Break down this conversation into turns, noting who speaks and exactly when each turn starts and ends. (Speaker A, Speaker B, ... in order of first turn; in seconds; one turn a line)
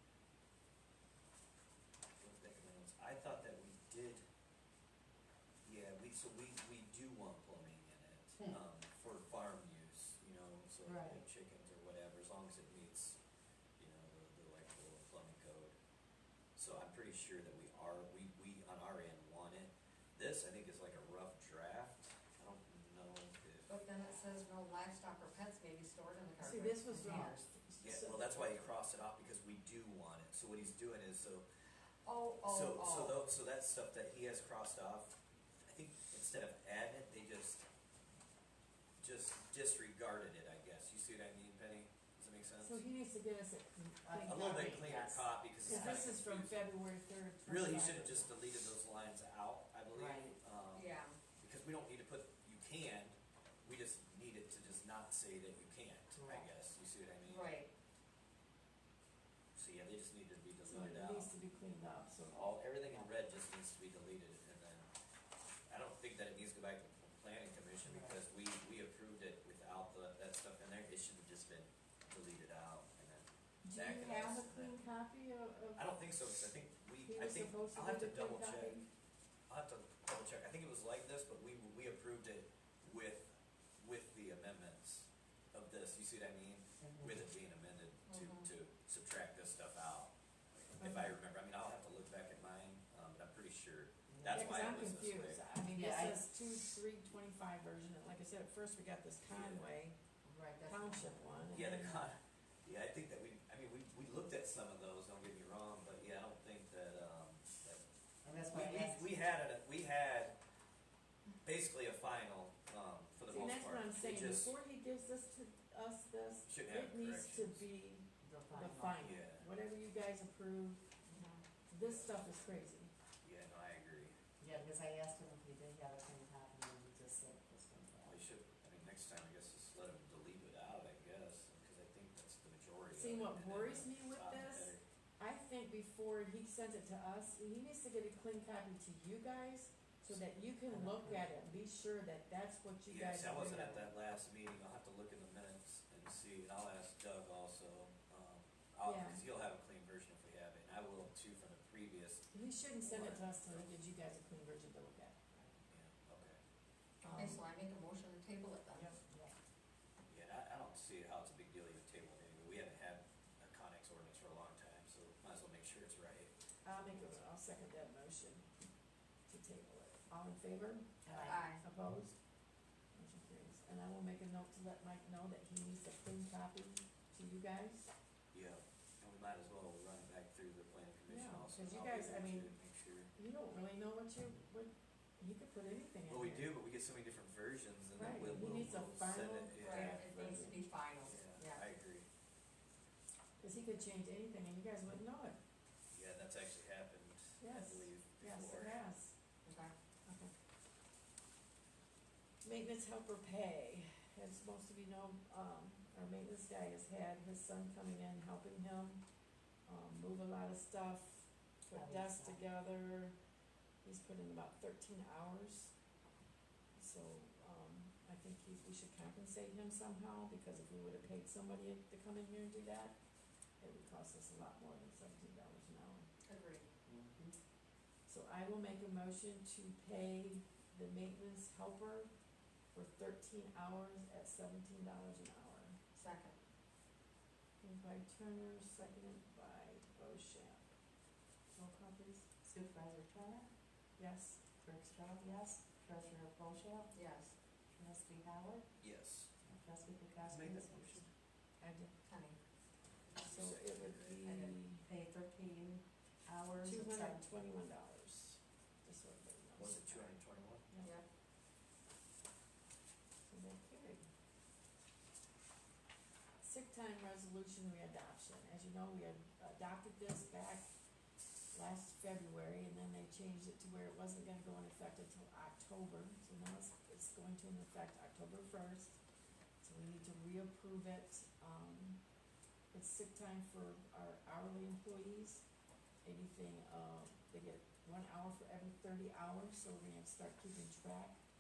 Speaker A: 2.2-4.2
Speaker A: 5.7-13.2
Speaker B: 10.8-11.2
Speaker A: 13.8-15.8
Speaker A: 16.6-23.7
Speaker C: 23.7-27.5
Speaker D: 26.4-28.7
Speaker B: 27.0-27.4
Speaker A: 27.8-31.5
Speaker C: 32.0-33.2
Speaker A: 32.4-37.7
Speaker A: 39.0-42.9
Speaker D: 42.6-44.8
Speaker B: 44.0-46.1
Speaker A: 44.2-46.7
Speaker D: 45.6-48.3
Speaker A: 47.4-57.6
Speaker B: 50.0-50.3
Speaker C: 50.7-51.2
Speaker B: 56.1-56.5
Speaker C: 57.3-57.7
Speaker A: 59.5-61.3
Speaker D: 60.6-62.4
Speaker A: 62.3-64.9
Speaker A: 65.7-74.8
Speaker B: 67.8-68.2
Speaker D: 73.6-76.0
Speaker A: 75.8-78.8
Speaker D: 77.0-78.9
Speaker A: 79.5-95.4
Speaker B: 86.8-87.2
Speaker C: 88.1-88.5
Speaker D: 90.8-91.2
Speaker B: 94.1-94.7
Speaker D: 94.3-100.0
Speaker B: 95.7-96.2
Speaker A: 99.3-99.7
Speaker B: 100.2-101.6
Speaker D: 100.7-102.1
Speaker A: 101.5-107.8
Speaker B: 108.2-109.0
Speaker A: 108.4-110.4
Speaker A: 111.4-114.6
Speaker D: 113.3-120.9
Speaker A: 116.5-117.7
Speaker B: 118.2-119.0
Speaker A: 119.0-119.5
Speaker C: 121.1-121.4
Speaker D: 121.7-122.9
Speaker A: 121.8-122.3
Speaker A: 123.2-124.2
Speaker B: 124.4-128.2
Speaker A: 128.0-134.8
Speaker D: 132.9-143.9
Speaker B: 140.7-141.2
Speaker A: 142.9-152.3
Speaker D: 148.8-149.2
Speaker D: 152.3-155.5
Speaker A: 152.8-153.7
Speaker A: 155.7-156.4
Speaker C: 157.0-158.9
Speaker D: 157.0-157.4
Speaker D: 158.7-159.3
Speaker A: 160.1-166.3
Speaker D: 166.6-168.5
Speaker D: 169.3-172.2
Speaker B: 171.0-171.6
Speaker C: 171.3-171.6
Speaker D: 172.9-177.9
Speaker A: 178.3-183.2
Speaker D: 181.1-182.5
Speaker D: 183.1-186.5
Speaker A: 186.1-190.1
Speaker D: 187.9-190.6
Speaker C: 189.6-191.6
Speaker A: 191.0-192.1
Speaker D: 193.4-195.4
Speaker A: 195.9-198.8
Speaker D: 197.4-199.2
Speaker C: 199.4-199.7
Speaker D: 200.1-200.3
Speaker D: 202.4-209.0
Speaker D: 209.7-213.2
Speaker B: 211.7-212.4
Speaker D: 213.8-215.8
Speaker D: 216.8-223.0
Speaker D: 223.6-226.1
Speaker C: 226.3-226.7
Speaker B: 226.9-227.4
Speaker D: 228.1-232.1
Speaker D: 232.7-235.8
Speaker C: 235.9-236.4
Speaker D: 237.6-240.7
Speaker D: 241.5-242.3
Speaker B: 242.4-243.5
Speaker D: 244.0-244.4
Speaker B: 244.6-247.0
Speaker C: 246.9-247.3
Speaker B: 247.7-248.7
Speaker A: 248.8-249.3
Speaker B: 249.4-251.0
Speaker A: 250.2-251.1
Speaker D: 251.6-251.9
Speaker C: 252.1-252.4
Speaker A: 253.1-254.2
Speaker D: 253.2-254.8
Speaker C: 254.2-254.6
Speaker B: 254.8-257.3
Speaker D: 256.6-260.1
Speaker A: 259.6-260.7
Speaker D: 260.7-261.0
Speaker D: 263.3-264.1
Speaker D: 266.4-270.7
Speaker D: 271.5-279.0
Speaker D: 279.6-282.0
Speaker D: 282.7-285.5
Speaker D: 286.0-291.2